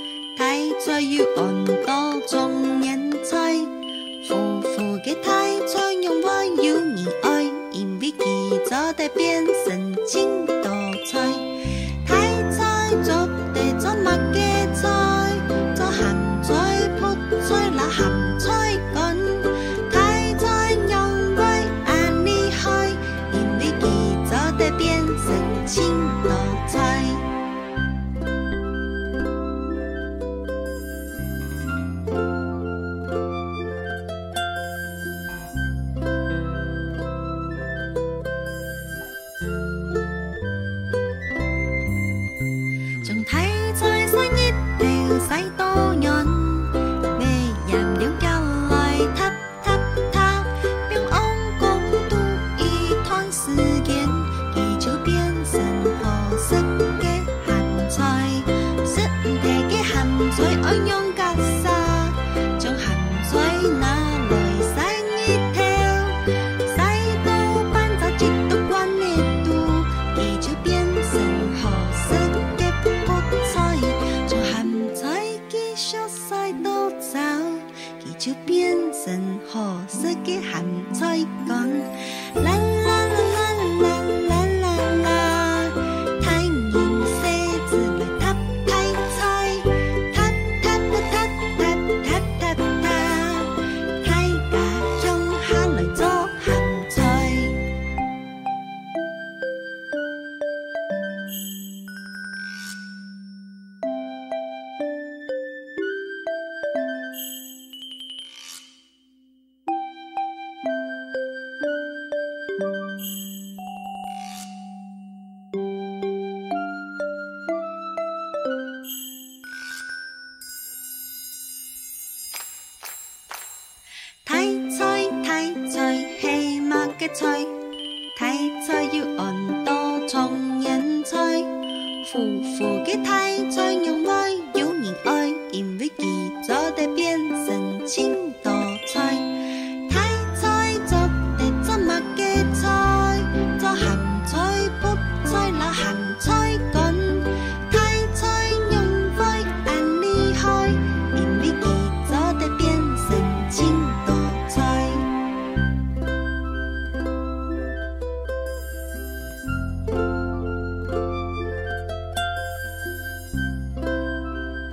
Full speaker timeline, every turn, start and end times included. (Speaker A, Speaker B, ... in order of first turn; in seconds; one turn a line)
Speaker A: 0.3-27.2
Speaker A: 43.0-97.6
Speaker A: 124.2-127.5
Speaker A: 128.1-131.5
Speaker A: 132.0-155.1